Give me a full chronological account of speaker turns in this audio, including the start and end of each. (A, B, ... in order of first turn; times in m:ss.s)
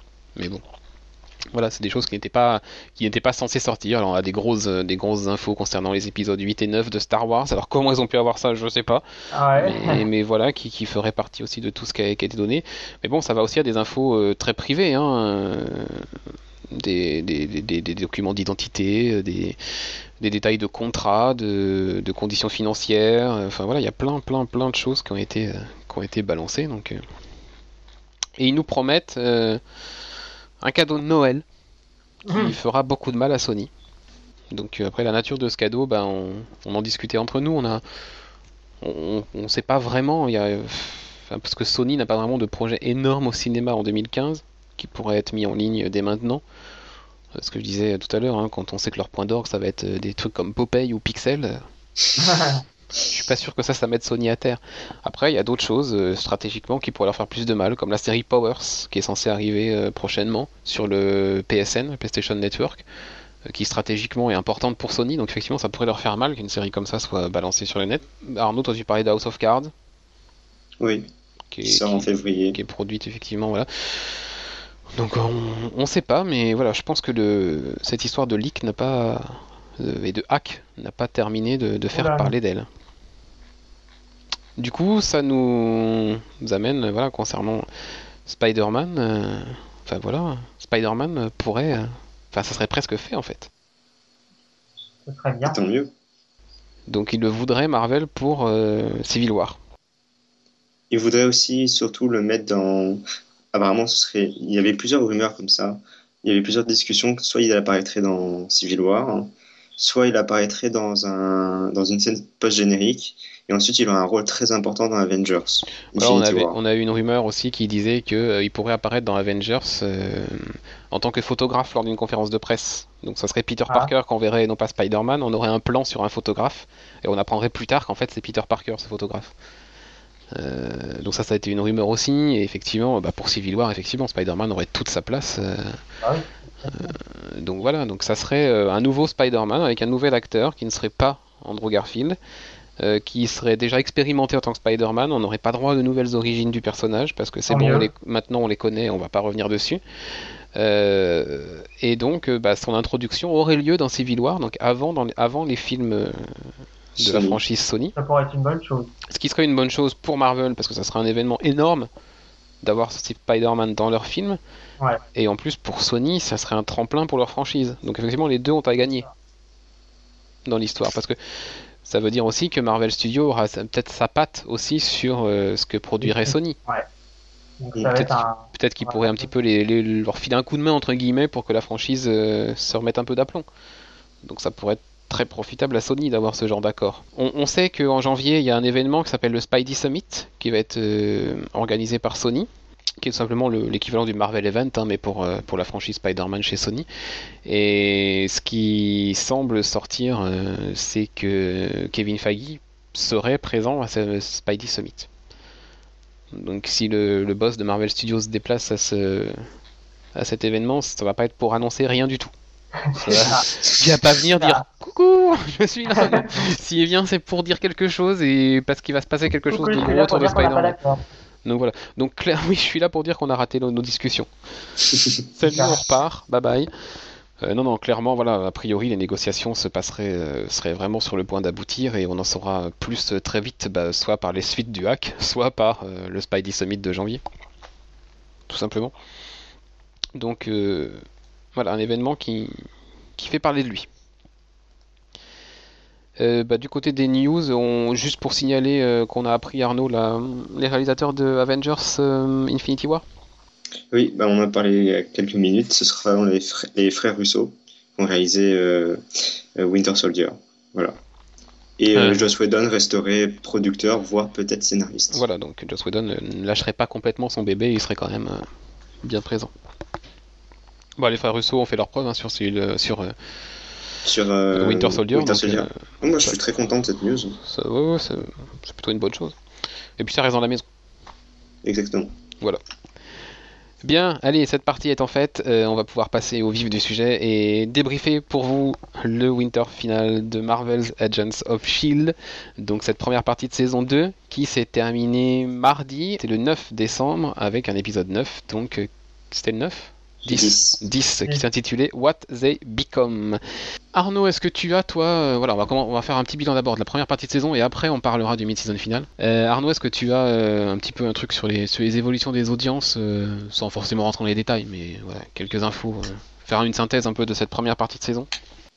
0:00.4-0:00.6 A
0:01.5-0:09.0 A
0:09.3-0:10.0 B
0:09.6-0:16.1 A
0:16.7-0:19.6 A
0:20.2-0:27.0 A
0:28.4-0:29.6 A
0:30.6-0:31.4 A
0:32.2-0:32.5 B
0:32.3-0:33.7 A
0:34.5-0:37.8 A
0:38.8-0:46.4 A
0:47.3-0:51.6 A
0:52.2-0:52.6 B
0:53.0-1:02.8 A
1:03.5-1:09.7 A
1:10.8-1:11.1 C
1:11.5-1:14.3 A
1:11.6-1:12.6 C
1:15.0-1:22.7 A
1:21.9-1:22.3 B
1:24.6-1:27.6 A
1:28.2-1:33.5 A
1:35.0-1:35.6 B
1:35.4-1:35.9 C
1:36.9-1:39.6 A
1:40.9-1:43.0 C
1:43.5-1:56.6 C
1:55.9-2:09.3 A
2:10.3-2:15.8 A
2:16.0-2:16.9 B
2:16.8-2:22.2 A
2:22.8-2:29.8 A
2:27.5-2:27.9 B
2:30.5-2:37.9 A
2:37.0-2:37.4 C
2:38.0-2:38.9 B
2:39.1-2:41.9 A
2:42.6-2:44.4 A
2:45.1-2:49.0 A
2:50.4-2:51.2 A
2:51.8-2:56.6 A
2:56.0-2:56.8 B
2:57.6-2:59.2 B
2:57.9-3:03.4 A
3:04.2-3:12.5 A
3:13.0-3:16.8 A
3:17.4-3:25.1 A
3:26.3-3:29.4 A
3:30.1-3:32.3 A
3:32.9-3:33.4 B
3:32.9-3:40.8 A
3:36.0-3:36.2 B
3:39.5-3:41.0 B
3:41.4-3:44.3 A
3:45.3-3:46.7 A
3:45.4-3:45.8 B
3:47.4-3:57.2 A
3:58.5-3:58.9 A
4:00.1-4:01.0 A
4:01.6-4:02.5 A
4:03.2-4:03.9 A
4:06.2-4:13.0 A
4:13.9-4:19.0 C
4:19.6-4:21.0 C
4:21.8-4:25.2 C
4:21.9-4:22.2 A
4:25.1-4:28.4 A
4:29.0-4:29.5 A
4:31.0-4:33.1 A
4:34.0-4:37.4 C
4:34.5-4:35.7 A
4:37.4-4:39.4 A
4:40.0-4:40.6 A
4:41.6-4:42.1 C
4:43.8-5:03.4 A
5:00.2-5:00.8 C
5:03.9-5:18.3 A